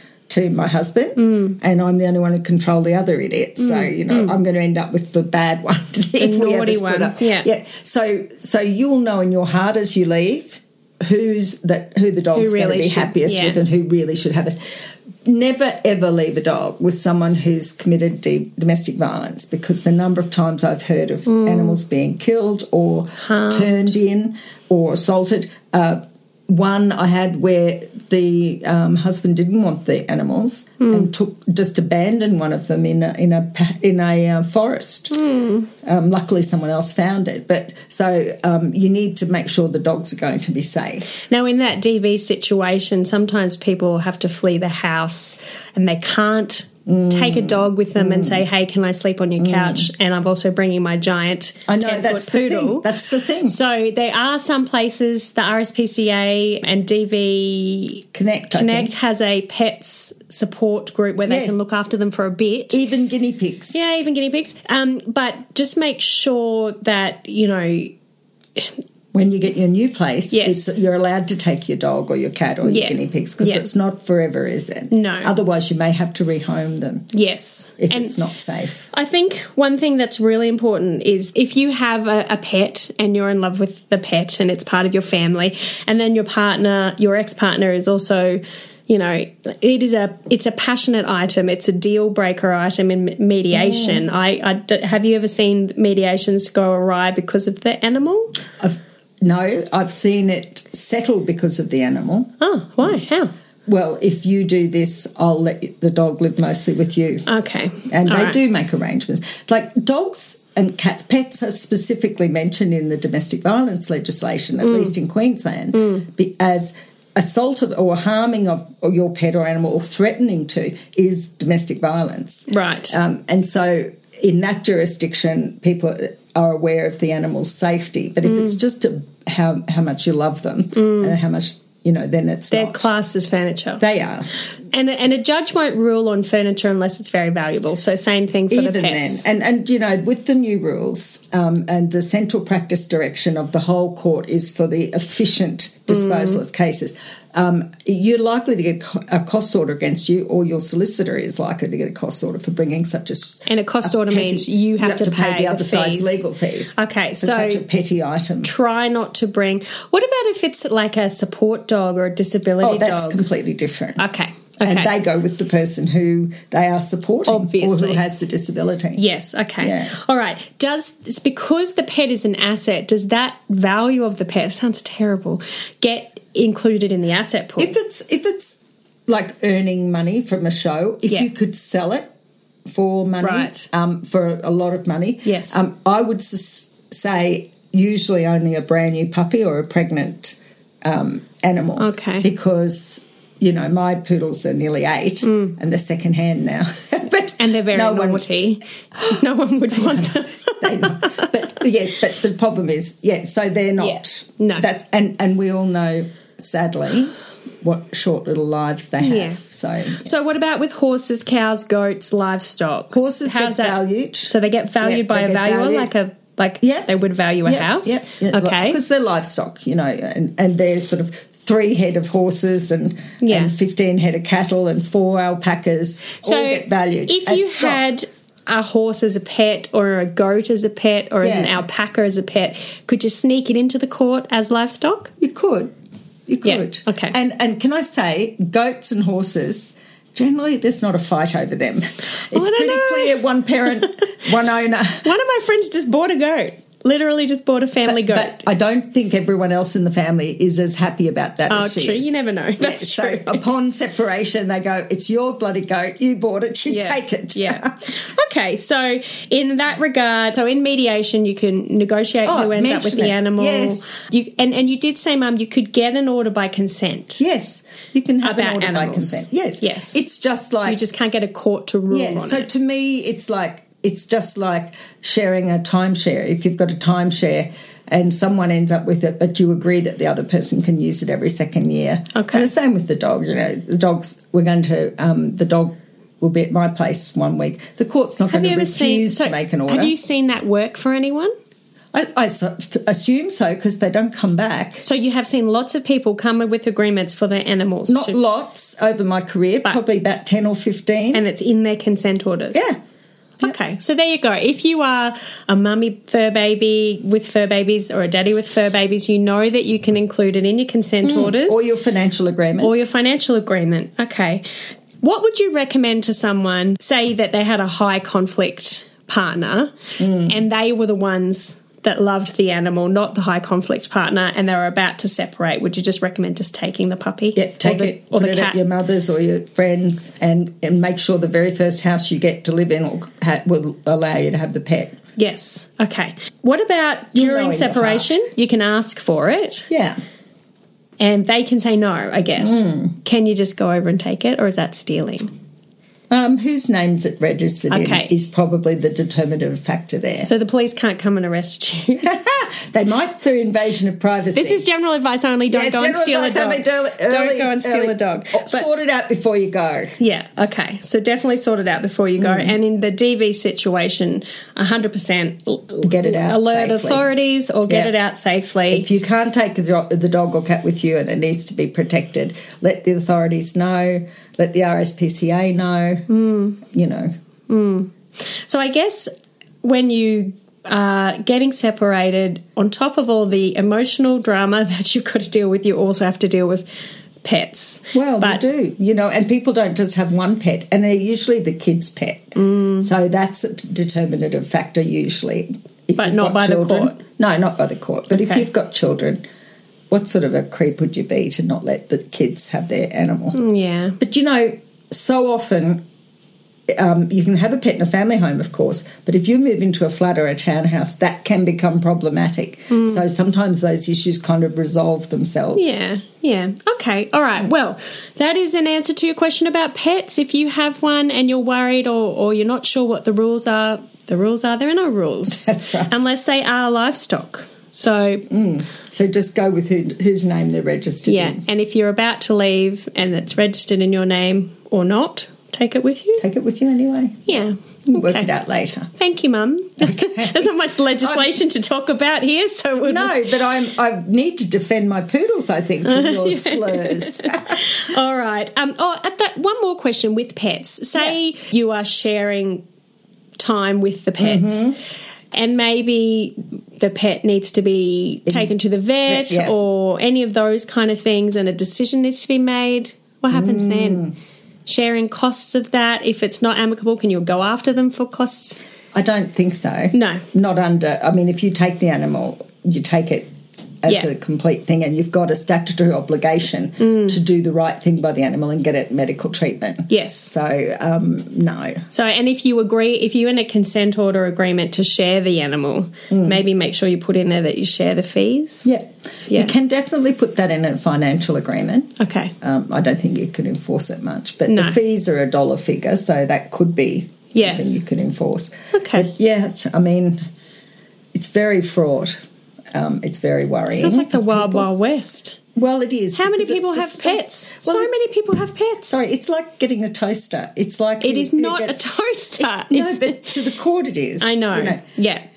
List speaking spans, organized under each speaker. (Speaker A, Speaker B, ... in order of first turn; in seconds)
Speaker A: 0.3-14.6, 15.2-35.2, 35.8-41.1, 46.9-48.4, 49.4-49.9, 51.7-53.6, 58.1-58.9, 61.3-61.6, 62.7-63.8, 69.1-77.1, 77.8-78.9, 93.5-94.0, 98.6-102.3, 103.7-107.3, 107.9-132.9, 133.8-134.3, 138.5-158.5, 162.6-164.0, 164.6-169.0, 169.6-169.9, 177.6-182.1, 182.7-198.3, 199.7-210.1, 212.9-215.9, 216.6-216.9, 217.4-227.8, 231.2-231.6, 235.2-235.7, 236.3-245.1, 247.8-257.8, 262.2-264.0, 267.2-270.8, 271.9-289.9, 291.9-294.8, 297.9-301.2, 311.0-312.7, 320.0-320.4, 327.4-334.9, 337.1-338.2, 339.7-340.0, 342.4-342.9, 346.1-350.3, 352.0-354.6, 355.5-359.9, 362.2-362.6, 365.8-367.1, 367.7-367.9, 368.7-376.0, 376.7-377.1, 387.9-399.2, 399.9-403.4, 404.0-405.8, 406.7-415.8, 425.3-426.0, 428.3-431.4, 436.2-438.9, 439.8-441.4, 442.8-447.6, 454.2-454.8, 458.3-458.5, 459.1-459.5, 463.3-464.1, 468.9-473.3, 473.8-481.8, 486.1-486.4, 488.6-500.2, 501.1-502.2, 502.7-504.7, 505.6-508.0, 508.9-511.8, 512.4-514.8
Speaker B: 1.2-1.6, 3.6-4.3, 6.2-7.5, 12.3-13.6, 21.2-21.8, 23.2-23.9, 30.8-31.1, 35.1-35.7, 41.1-52.9, 53.4-62.8, 63.7-67.9, 70.3-70.7, 72.6-73.7, 74.9-75.3, 77.1-78.2, 78.9-98.4, 102.4-103.3, 107.3-108.4, 114.6-114.9, 115.7-116.0, 122.5-123.0, 128.2-128.6, 130.8-131.1, 132.5-133.8, 134.7-139.2, 145.9-146.4, 153.4-157.6, 158.4-163.2, 164.0-164.9, 167.3-168.0, 168.9-177.7, 183.2-183.7, 185.2-185.6, 191.8-192.3, 195.2-195.6, 197.3-201.3, 203.8-204.7, 209.0-209.4, 209.9-218.8, 223.2-223.5, 226.2-235.1, 236.4-237.1, 242.3-244.0, 245.0-248.4, 251.5-253.4, 256.7-267.2, 268.2-269.9, 270.6-272.5, 282.1-282.5, 288.3-291.3, 294.8-298.2, 301.1-302.6, 303.4-311.6, 312.6-314.4, 315.0-328.6, 335.2-339.7, 341.0-345.3, 347.7-348.1, 350.2-352.1, 354.3-358.7, 360.0-368.9, 376.1-376.6, 377.5-379.1, 379.6-386.6, 387.2-388.4, 392.4-392.9, 396.0-397.0, 398.1-398.4, 403.3-404.0, 412.7-413.0, 415.6-428.3, 431.0-436.2, 437.3-438.3, 438.9-443.3, 445.9-452.6, 453.4-454.7, 455.3-464.0, 464.6-468.6, 469.9-470.2, 476.8-477.2, 479.9-480.3, 481.9-488.7, 489.3-489.5, 492.0-492.3, 494.5-494.8, 497.3-497.8, 498.7-499.1, 503.7-505.4, 506.1-509.0, 511.0-513.4, 514.2-515.2